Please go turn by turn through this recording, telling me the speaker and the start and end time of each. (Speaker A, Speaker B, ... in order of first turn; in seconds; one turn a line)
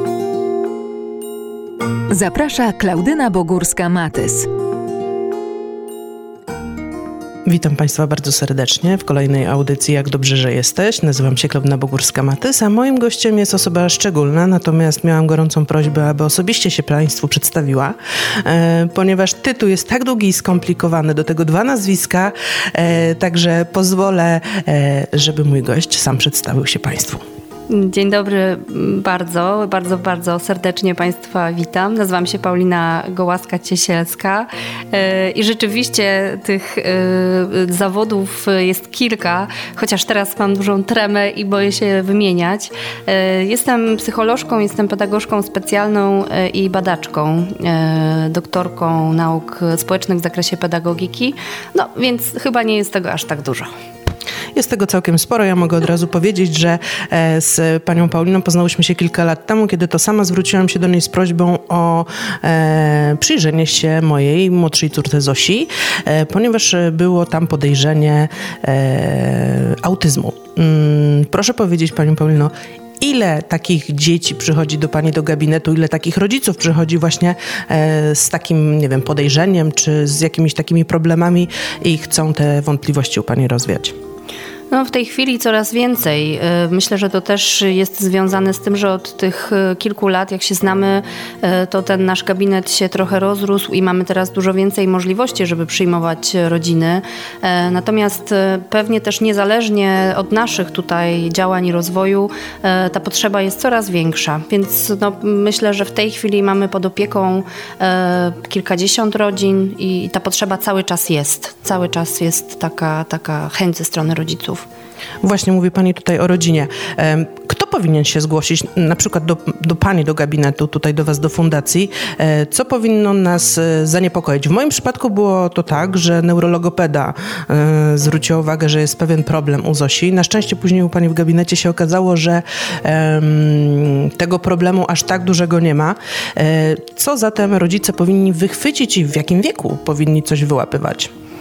Speaker A: 2.1-4.5
Speaker B: 7.5-27.2
Speaker C: 27.7-53.7
Speaker B: 54.5-84.0
Speaker C: 84.7-114.7
Speaker B: 115.2-141.1